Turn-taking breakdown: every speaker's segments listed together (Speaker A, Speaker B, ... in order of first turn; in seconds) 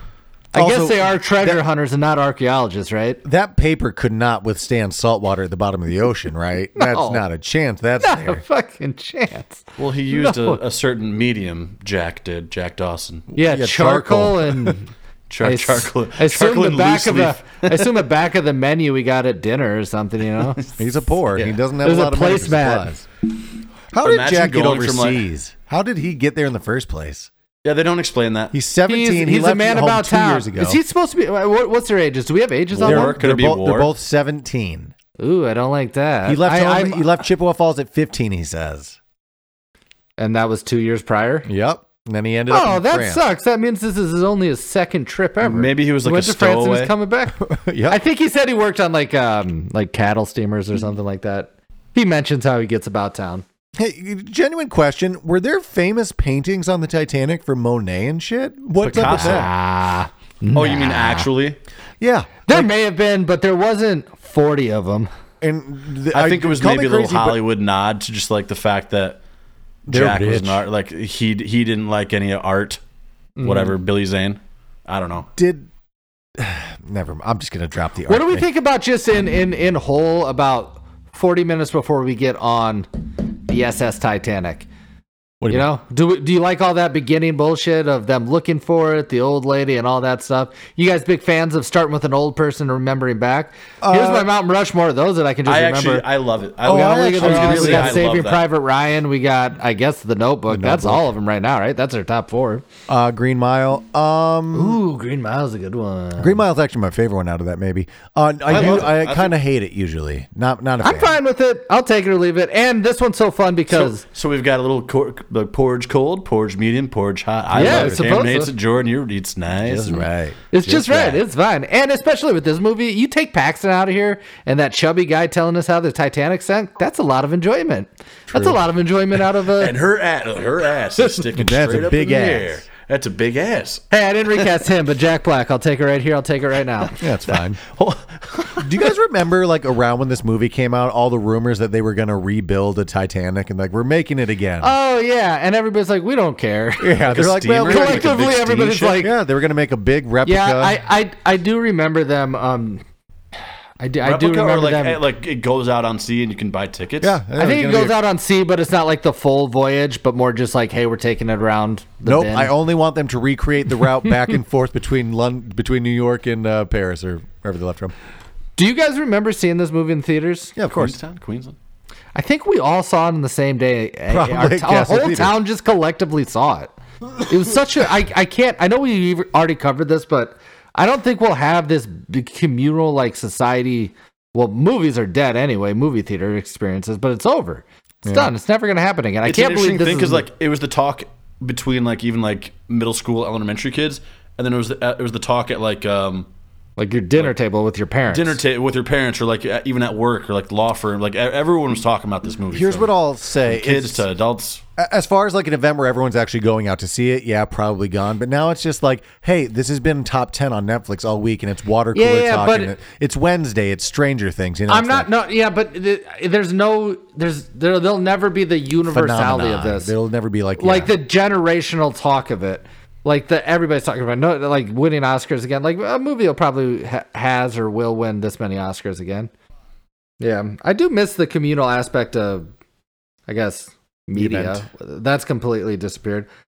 Speaker A: 0.5-3.2, 6.8-7.2, 8.0-10.6, 13.3-14.9, 15.4-20.6, 21.4-22.9, 28.9-33.2, 35.2-37.1, 40.2-41.5, 42.5-53.5, 59.0-61.3, 62.5-65.1, 73.4-73.7, 78.1-84.7, 85.5-96.1, 96.7-102.7, 104.5-106.4, 110.8-114.0, 117.5-118.5, 120.5-129.8, 133.9-137.0, 144.6-147.1, 147.7-149.1, 150.2-152.8, 153.8-155.0, 157.4-162.5, 168.6-170.5, 172.2-190.3, 196.8-198.4, 211.9-212.7, 214.7-219.9, 220.6-229.3, 230.2-232.5, 233.3-236.3
Speaker B: 0.5-1.6, 3.2-8.4, 13.5-14.8, 20.8-23.1, 23.9-27.3, 28.5-30.8, 32.8-34.9, 36.3-39.0, 41.5-43.2, 47.4-48.0, 53.8-59.5, 62.0-62.7, 65.4-67.4, 69.9-70.7, 75.4-75.7, 76.4-78.5, 85.4-85.7, 93.8-94.3, 96.7-98.0, 100.5-101.1, 102.9-104.8, 106.2-111.2, 117.5-118.1, 119.6-120.8, 128.3-128.6, 131.3-132.6, 137.0-137.6, 138.6-144.7, 146.8-148.2, 149.0-150.8, 157.0-158.0, 162.0-167.9, 170.6-171.0, 174.1-175.4, 188.1-188.3, 202.5-204.0, 204.8-215.1, 218.9-220.9, 234.1-234.7
Speaker C: 9.8-13.3, 15.3-18.0, 24.0-25.2, 27.6-28.6, 32.7-33.9, 45.4-46.9, 58.8-59.5, 60.5-61.6, 66.1-69.2, 69.9-72.8, 73.4-75.3, 95.5-98.5, 108.5-109.3, 113.7-120.0, 120.7-121.2, 129.5-133.8, 137.6-138.9, 147.1-149.0, 154.0-157.2, 170.6-171.6, 189.2-196.3, 198.1-202.9, 203.5-204.6